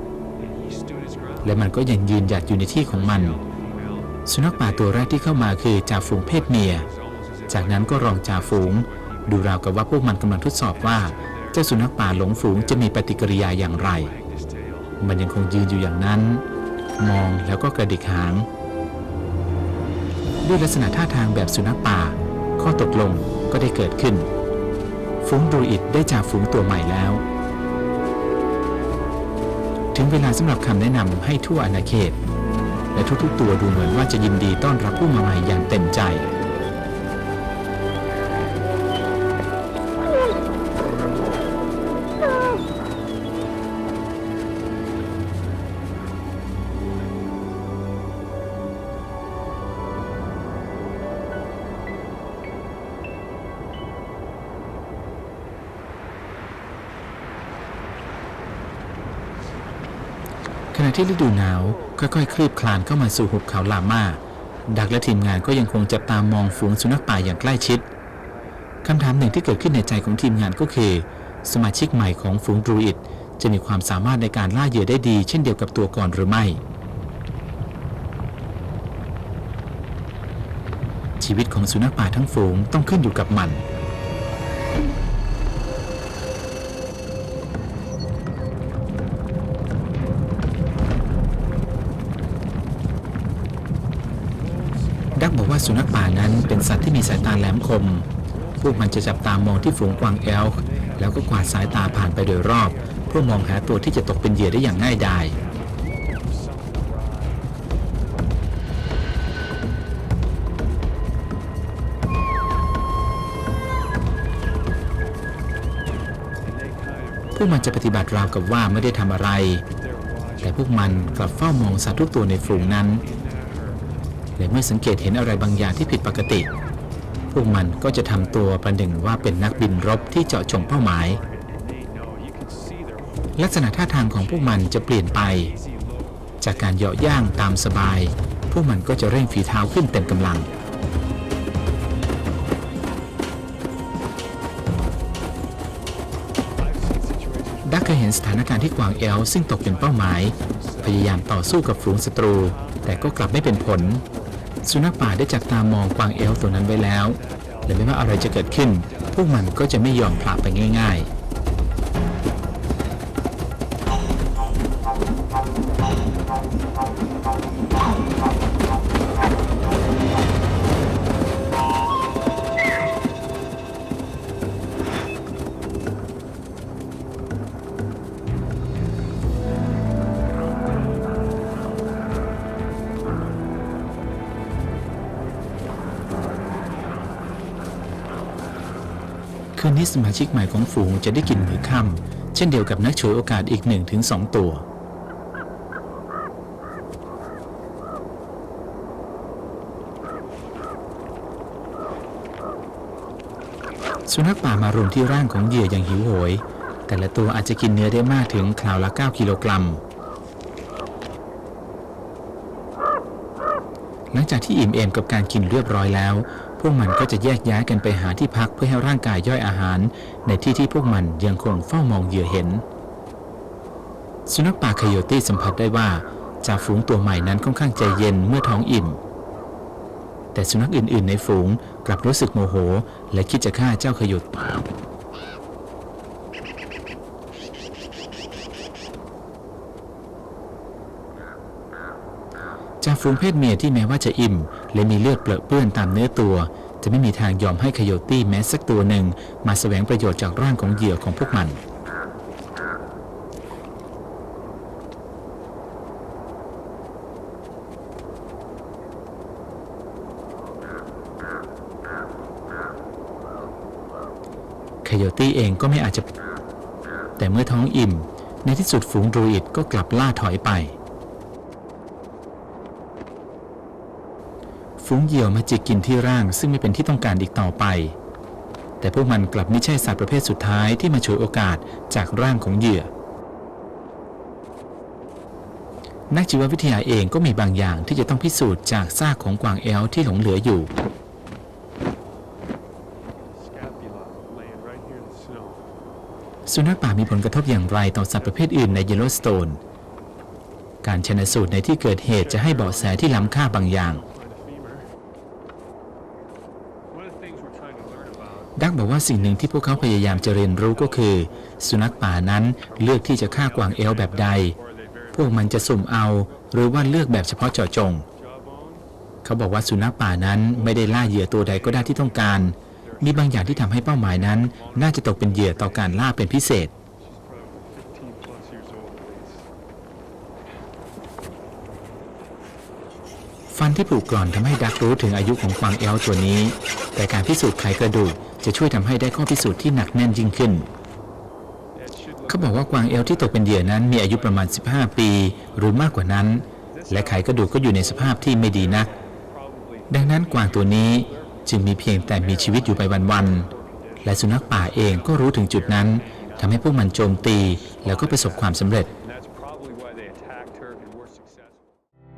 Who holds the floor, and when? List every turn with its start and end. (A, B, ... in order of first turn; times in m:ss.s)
0:00.4-0:01.9 A
0:01.4-0:03.4 B
0:02.6-0:09.8 A
0:04.3-0:06.9 B
0:07.5-0:14.1 B
0:10.7-0:15.0 A
0:15.0-0:16.4 B
0:17.0-0:18.5 B
0:20.4-0:24.3 B
0:25.2-0:27.2 B
0:29.9-0:32.2 B
0:32.9-0:36.3 B
1:00.7-1:07.9 B
1:06.1-1:07.8 A
1:08.8-1:16.6 B
1:21.2-1:23.6 B
1:34.3-1:47.5 A
1:35.2-1:38.1 B
1:38.6-1:45.4 B
1:56.4-2:04.0 A
1:57.4-1:59.6 B
2:00.4-2:03.0 B
2:04.4-2:06.5 B
2:05.0-2:06.6 A
2:07.3-2:11.2 B
2:07.3-2:18.0 A
2:13.4-2:15.5 B
2:16.4-2:20.5 B
2:18.9-2:21.1 A
2:26.5-2:40.8 A
2:27.6-2:34.0 B
2:34.6-2:41.1 B
3:09.6-3:14.6 B
3:24.1-3:29.8 B
3:34.1-3:42.6 B
3:44.3-3:49.0 B
3:50.3-3:54.6 B
4:02.8-4:11.6 B
4:24.8-4:26.1 B
4:27.2-4:30.8 B
4:34.8-4:38.0 B
4:38.8-4:42.9 B
4:46.1-4:50.7 B
4:53.0-4:55.7 A
4:56.5-4:59.6 B
4:58.4-4:58.7 A
5:00.8-5:04.0 B
5:02.1-5:04.9 A
5:06.9-5:17.3 A
5:08.6-5:14.6 B
5:15.1-5:18.0 B
5:18.0-5:18.9 A
5:19.2-5:26.7 B
5:20.4-5:26.1 A
5:27.0-5:29.5 A
5:33.5-5:40.7 B
5:41.7-6:01.7 A
5:42.3-5:48.9 B
5:49.9-5:53.5 B
5:54.0-5:58.9 B